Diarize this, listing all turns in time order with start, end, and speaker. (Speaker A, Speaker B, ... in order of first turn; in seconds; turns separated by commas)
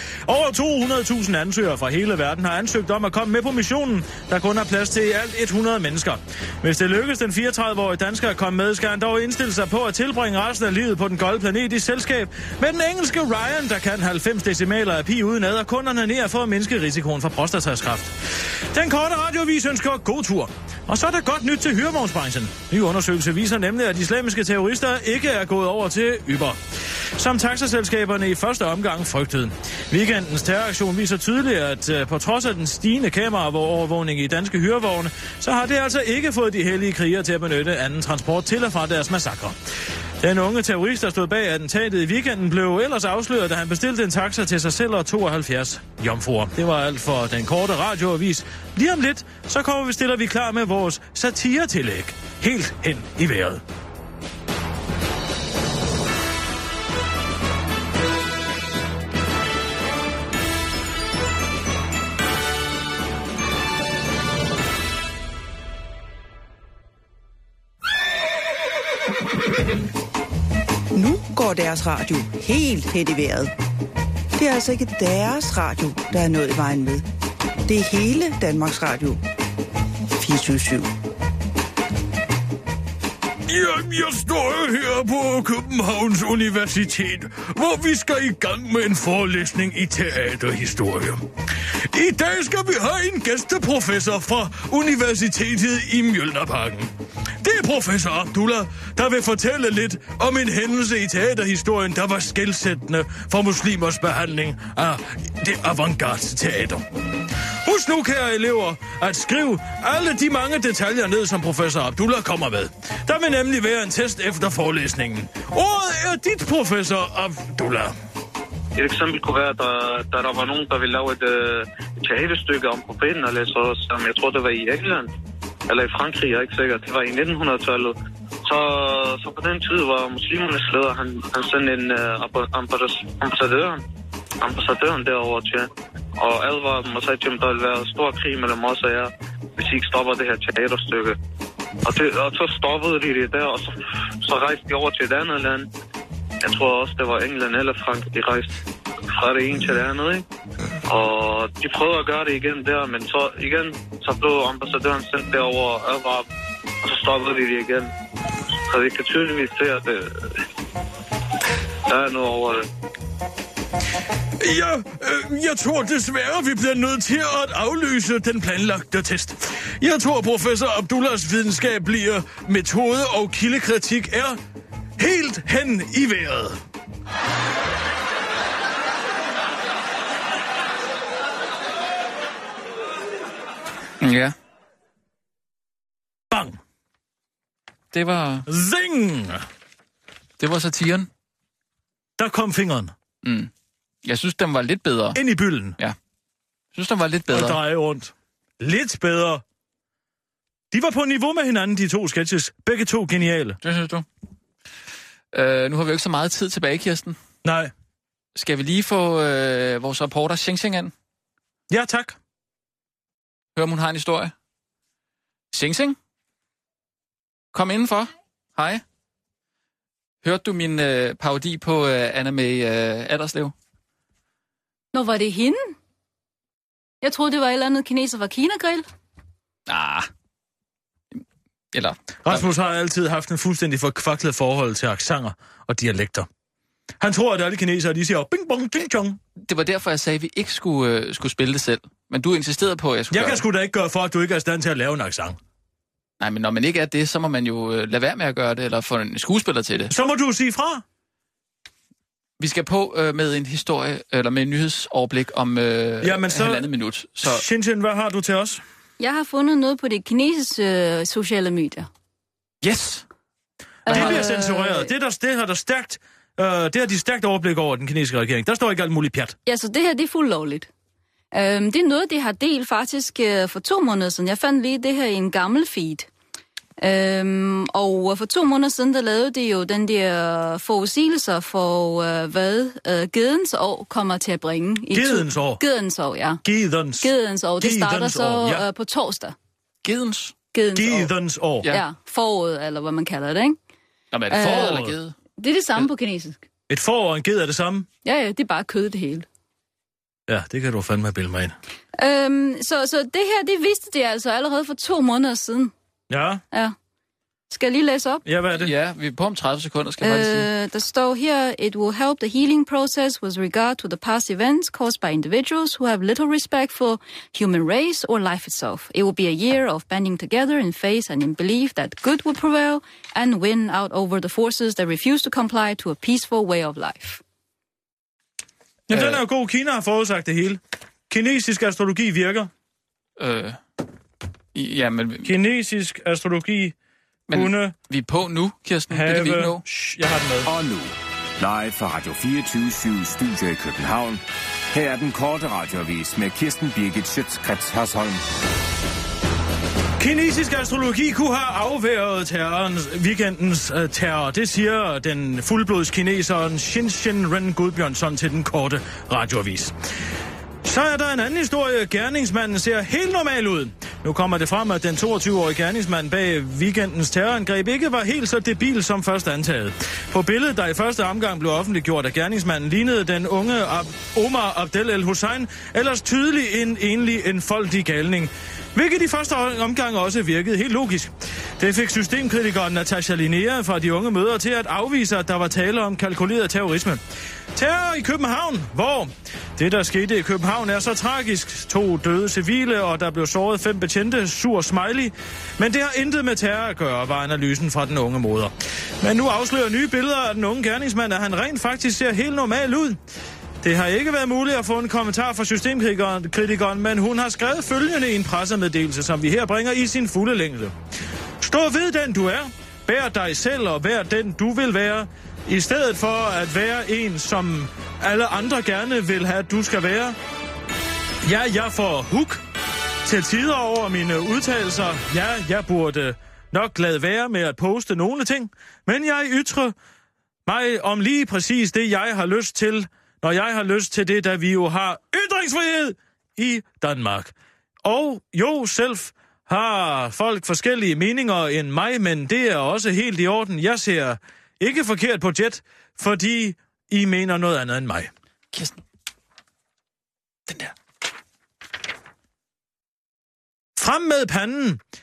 Speaker A: 0.2-26.6, Speaker A: 27.1-39.6, Speaker A: 40.2-53.6, Speaker B: 70.9-73.5, Speaker B: 74.3-77.0, Speaker B: 77.7-79.2, Speaker B: 80.1-80.9, Speaker A: 83.4-106.8, Speaker A: 107.5-117.9, Speaker C: 118.8-125.1, Speaker C: 125.7-127.9, Speaker C: 128.4-133.8, Speaker C: 134.4-141.2, Speaker C: 141.8-145.7, Speaker C: 146.4-148.5, Speaker C: 149.1-150.2, Speaker C: 150.9-156.2, Speaker C: 156.8-157.9, Speaker C: 158.7-160.3, Speaker C: 161.9-162.6, Speaker A: 164.4-174.4, Speaker A: 175.0-176.6, Speaker D: 184.0-184.3, Speaker A: 186.3-186.6, Speaker D: 187.9-188.5, Speaker A: 188.5-189.4, Speaker D: 190.4-191.1, Speaker A: 192.2-192.9, Speaker D: 193.2-193.5, Speaker D: 194.0-195.2, Speaker A: 195.1-195.8, Speaker D: 196.7-197.6, Speaker A: 197.3-199.4, Speaker A: 200.7-203.6, Speaker D: 203.6-204.0, Speaker D: 205.3-207.2, Speaker A: 207.4-207.7, Speaker D: 208.3-210.9, Speaker A: 211.7-212.2, Speaker D: 213.5-214.3, Speaker D: 215.5-215.9, Speaker D: 217.5-218.8, Speaker D: 220.2-223.5, Speaker E: 224.9-225.7, Speaker E: 227.0-228.8, Speaker D: 229.7-230.1, Speaker D: 231.7-232.5, Speaker A: 232.2-236.3, Speaker A: 237.0-239.2, Speaker D: 239.4-243.4, Speaker A: 243.1-245.4, Speaker D: 246.2-249.9, Speaker A: 249.9-250.8, Speaker D: 252.4-257.4, Speaker A: 256.0-256.7, Speaker A: 257.2-258.6, Speaker E: 259.0-261.9, Speaker D: 262.6-263.0, Speaker E: 263.9-264.9, Speaker A: 263.9-269.4, Speaker D: 263.9-264.2, Speaker E: 269.4-270.7, Speaker E: 271.3-276.1, Speaker E: 276.8-286.4, Speaker A: 284.9-285.6, Speaker A: 286.4-288.6, Speaker E: 287.0-289.3, Speaker D: 289.8-290.3, Speaker E: 290.5-291.1, Speaker A: 290.7-291.7, Speaker E: 291.6-293.6, Speaker D: 294.1-295.1, Speaker E: 294.3-296.4, Speaker A: 294.3-294.9, Speaker A: 296.7-297.9, Speaker E: 298.0-299.2, Speaker A: 300.3-301.5, Speaker E: 301.9-305.7, Speaker A: 306.1-306.4, Speaker E: 307.5-308.2, Speaker A: 308.2-308.7, Speaker D: 308.5-310.5, Speaker E: 310.0-327.2, Speaker A: 328.9-332.5, Speaker D: 328.9-329.2, Speaker D: 333.2-333.6, Speaker D: 334.5-335.3, Speaker A: 335.2-336.8, Speaker D: 337.3-339.6, Speaker A: 337.3-337.7, Speaker A: 338.9-340.5, Speaker F: 340.4-348.2, Speaker A: 350.0-359.7, Speaker A: 360.6-387.0, Speaker A: 387.5-403.0, Speaker A: 403.6-410.7, Speaker A: 411.4-420.2, Speaker A: 421.2-422.4, Speaker A: 423.0-429.7, Speaker A: 430.4-437.3, Speaker A: 437.8-448.1, Speaker D: 448.5-448.8, Speaker D: 450.5-450.7, Speaker A: 453.8-454.8